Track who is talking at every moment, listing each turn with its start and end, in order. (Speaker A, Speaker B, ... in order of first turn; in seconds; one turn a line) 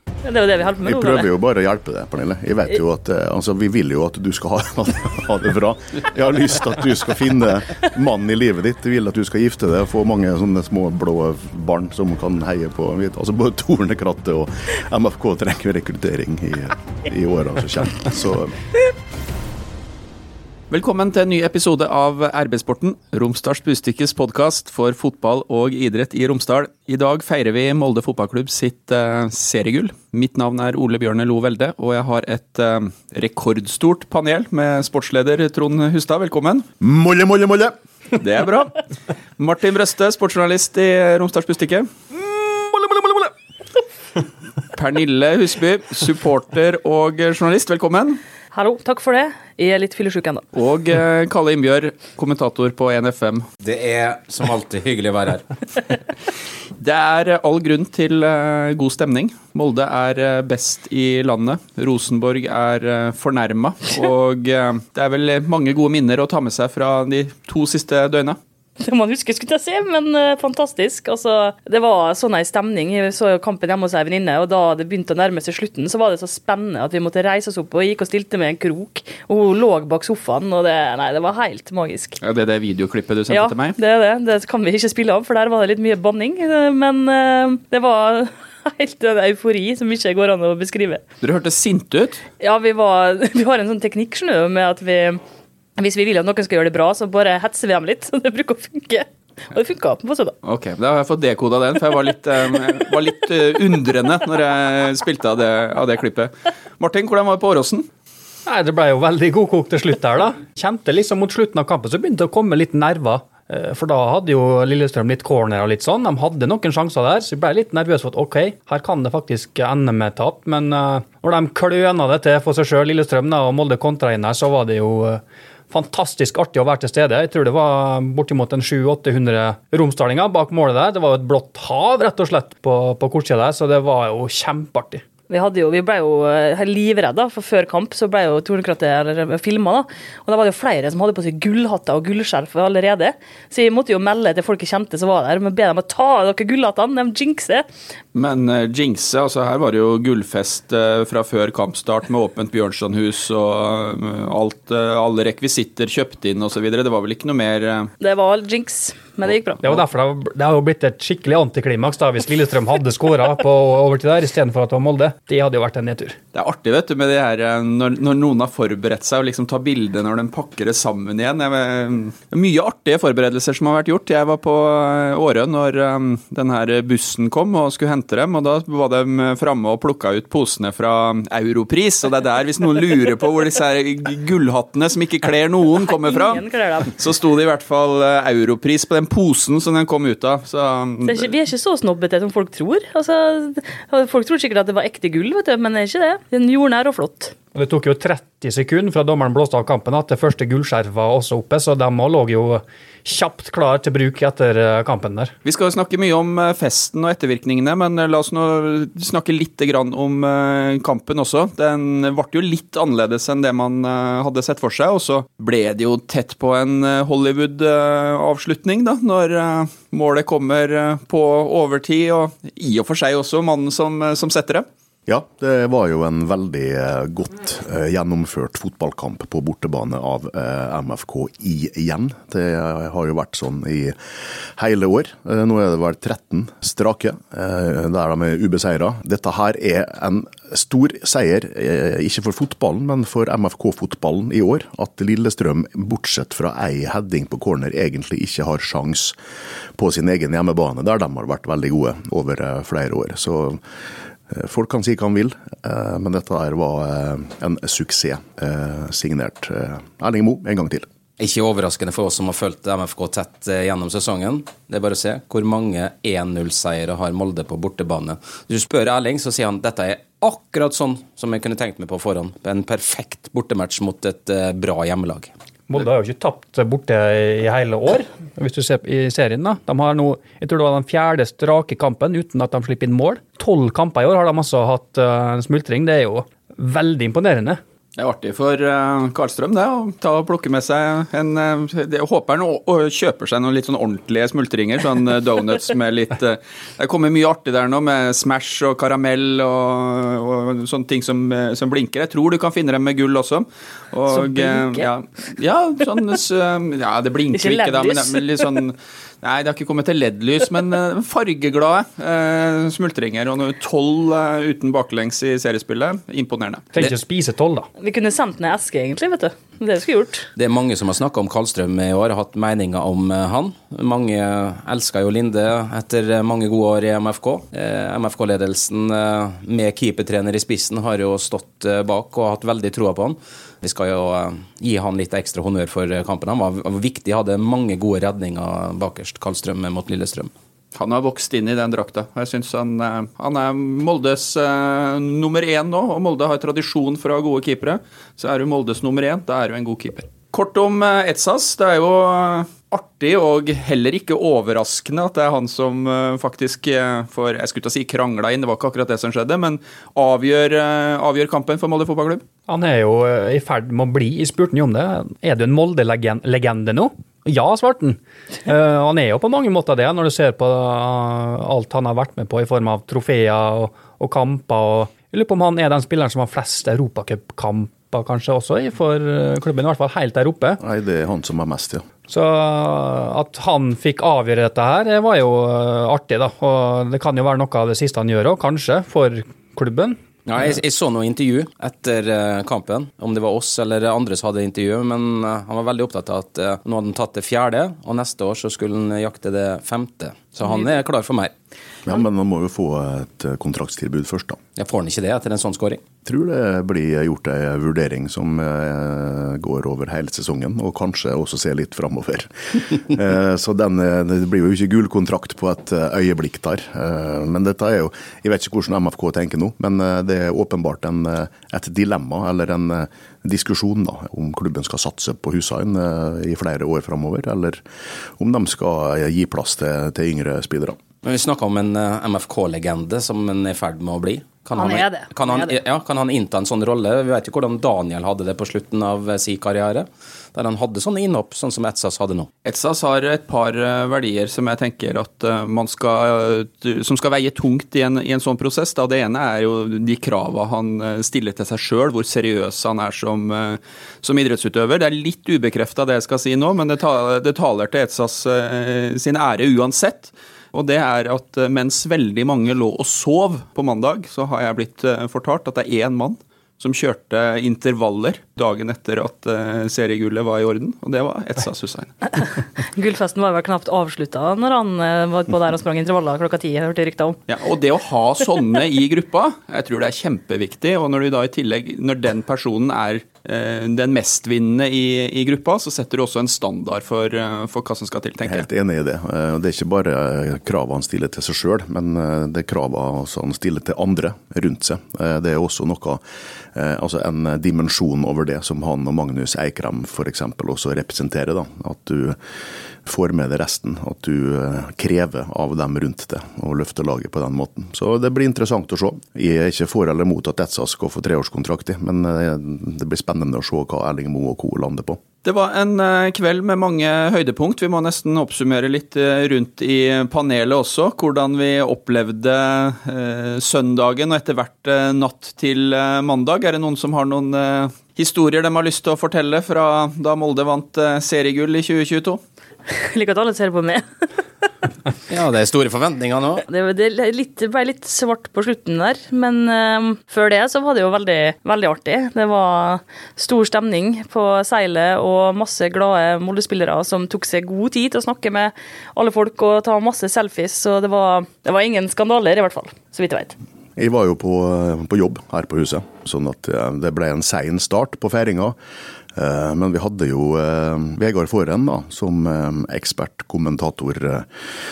Speaker A: 0.2-1.2
Speaker B: 0.8-18.5
Speaker C: 20.7-36.6
Speaker B: 36.8-37.7
Speaker C: 38.2-38.8
Speaker C: 39.4-41.9
Speaker C: 44.8-48.2
Speaker A: 48.5-50.4
Speaker C: 50.5-53.5
Speaker D: 53.6-55.5
Speaker C: 56.8-68.4
Speaker A: 68.8-82.2
Speaker C: 82.2-83.8
Speaker A: 83.3-91.0
Speaker C: 91.2-92.2
Speaker A: 92.4-95.2
Speaker A: 95.8-100.4
Speaker C: 100.4-107.9
Speaker E: 108.5-135.0
Speaker A: 135.3-147.7
Speaker C: 148.1-157.9
Speaker A: 158.0-159.8
Speaker E: 159.6-166.2
Speaker C: 166.3-191.3
Speaker A: 185.8-186.9
Speaker A: 191.0-197.3
Speaker E: 197.5-205.3
Speaker C: 205.4-224.6
Speaker B: 225.1-234.0
Speaker B: 234.6-249.2
Speaker B: 249.8-253.6
Speaker B: 254.3-260.9
Speaker D: 261.2-275.3
Speaker E: 275.7-287.6
Speaker C: 288.0-316.9
Speaker A: 304.1-304.9
Speaker A: 307.3-308.4
Speaker E: 316.7-317.7
Speaker A: 317.8-320.3
Speaker D: 320.4-340.3
Speaker C: 340.7-362.2
Speaker E: 362.5-380.6
Speaker B: 380.6-381.8
Speaker E: 382.1-390.0
Speaker D: 390.2-401.3
Speaker B: 401.9-404.4
Speaker D: 404.6-405.8
Speaker B: 406.0-427.6
Speaker B: 428.2-430.8
Speaker D: 431.0-442.3
Speaker A: 434.6-435.5
Speaker C: 442.4-471.9
Speaker A: 472.2-477.2
Speaker C: 477.3-488.4
Speaker B: 488.2-496.0
Speaker B: 496.5-502.2
Speaker B: 502.8-515.0
Speaker C: 515.2-532.2
Speaker A: 532.7-533.8
Speaker D: 535.1-536.4
Speaker A: 536.5-553.4
Speaker B: 553.8-558.5
Speaker B: 559.1-564.3